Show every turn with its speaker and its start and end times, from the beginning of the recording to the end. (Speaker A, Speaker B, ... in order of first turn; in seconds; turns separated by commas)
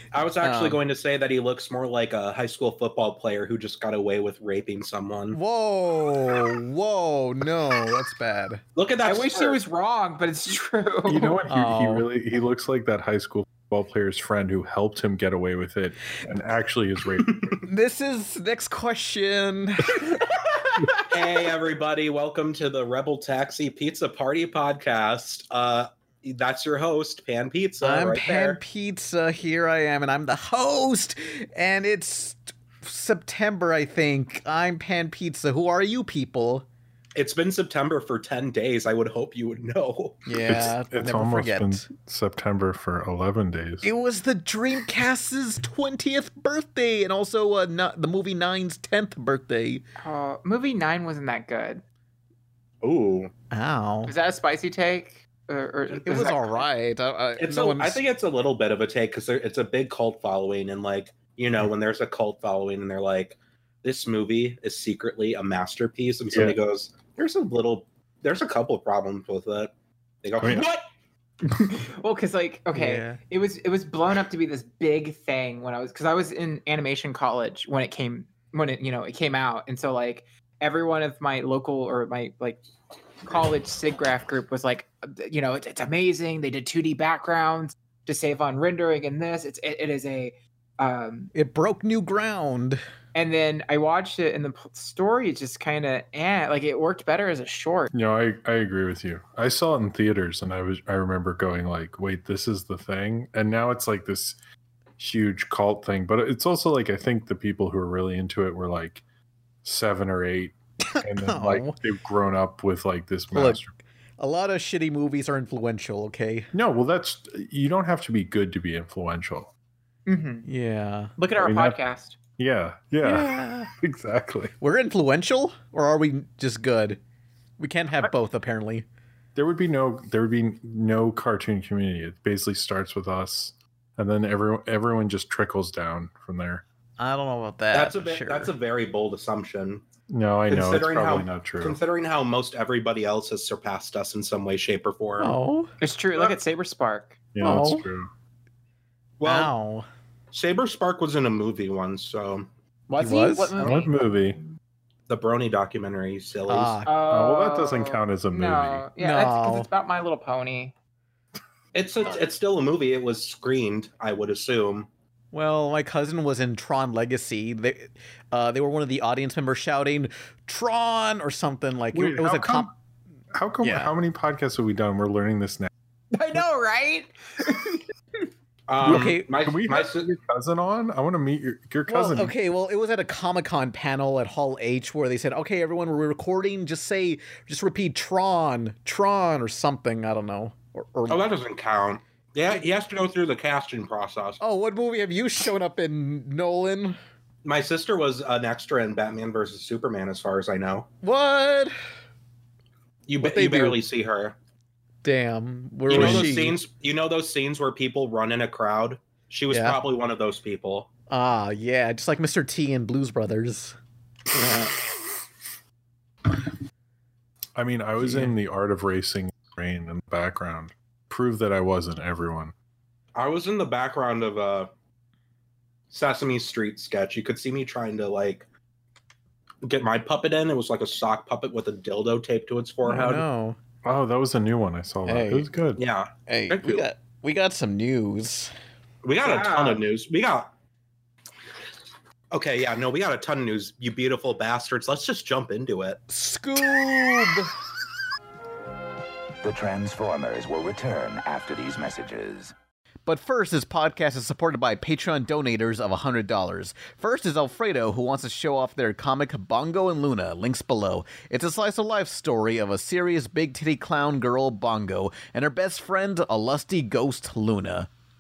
Speaker A: 0.1-5.4, Speaker B: 0.4-0.8, Speaker B: 5.3-8.6, Speaker A: 8.8-9.6, Speaker C: 9.0-11.4, Speaker D: 11.1-17.6, Speaker B: 11.5-12.1, Speaker A: 17.3-17.6, Speaker B: 17.6-20.1, Speaker C: 20.0-21.1, Speaker A: 21.1-28.6, Speaker B: 27.8-36.7, Speaker A: 37.2-40.3, Speaker B: 40.3-41.9, Speaker D: 40.5-43.9, Speaker B: 43.8-49.8, Speaker C: 50.0-51.8, Speaker A: 52.8-53.3, Speaker B: 53.5-54.1, Speaker C: 54.1-56.6, Speaker A: 56.0-56.3, Speaker B: 56.1-58.0, Speaker A: 57.4-70.8, Speaker D: 66.3-66.6, Speaker D: 70.4-70.7, Speaker C: 71.4-82.6, Speaker B: 72.8-73.2, Speaker C: 83.2-91.3, Speaker B: 91.3-92.8, Speaker C: 93.2-97.9, Speaker D: 97.9-104.4, Speaker D: 105.0-109.0, Speaker D: 109.6-113.8, Speaker B: 111.0-111.8, Speaker B: 113.3-113.6, Speaker B: 114.2-116.5, Speaker D: 116.5-119.5, Speaker C: 120.1-120.5, Speaker B: 120.5-121.1, Speaker C: 121.2-122.2, Speaker D: 121.4-121.8, Speaker D: 122.4-124.5, Speaker B: 123.0-123.7, Speaker B: 124.6-127.0, Speaker B: 127.6-128.9, Speaker D: 129.3-136.6, Speaker B: 137.0-138.5, Speaker A: 137.7-139.8, Speaker D: 140.1-141.8, Speaker A: 140.5-145.3, Speaker B: 145.2-145.7, Speaker C: 145.8-147.2, Speaker D: 147.3-148.1, Speaker B: 147.4-147.9, Speaker A: 149.2-149.5, Speaker B: 149.2-149.9, Speaker A: 150.3-152.5, Speaker C: 152.9-154.1, Speaker B: 153.0-153.6, Speaker D: 153.6-154.4, Speaker A: 155.1-156.8, Speaker B: 156.5-157.0, Speaker C: 156.8-160.7, Speaker D: 157.1-158.9, Speaker B: 159.0-159.7, Speaker A: 161.8-164.9, Speaker B: 165.3-172.7, Speaker D: 171.9-172.7, Speaker D: 173.3-175.7, Speaker B: 173.6-173.9, Speaker C: 176.1-177.9, Speaker A: 178.7-180.1, Speaker B: 178.8-179.3, Speaker D: 178.8-182.3, Speaker B: 181.9-191.2, Speaker A: 191.1-194.4, Speaker B: 194.4-197.0, Speaker A: 197.4-200.9, Speaker B: 201.0-201.7, Speaker A: 203.1-204.4, Speaker B: 203.2-203.8, Speaker B: 205.0-206.6, Speaker A: 205.9-210.9, Speaker D: 205.9-206.3, Speaker B: 209.5-209.8, Speaker B: 211.1-213.8, Speaker B: 214.3-214.8, Speaker D: 217.6-222.5, Speaker B: 218.0-218.3, Speaker A: 223.2-224.7, Speaker A: 225.9-228.4, Speaker A: 229.6-233.2, Speaker B: 232.8-233.6, Speaker D: 233.8-235.8, Speaker B: 235.1-235.5, Speaker A: 235.8-236.8, Speaker B: 236.3-238.5, Speaker A: 239.0-240.5, Speaker C: 239.2-239.8, Speaker A: 242.3-246.0, Speaker B: 246.1-247.5, Speaker E: 249.4-252.5, Speaker B: 253.1-267.9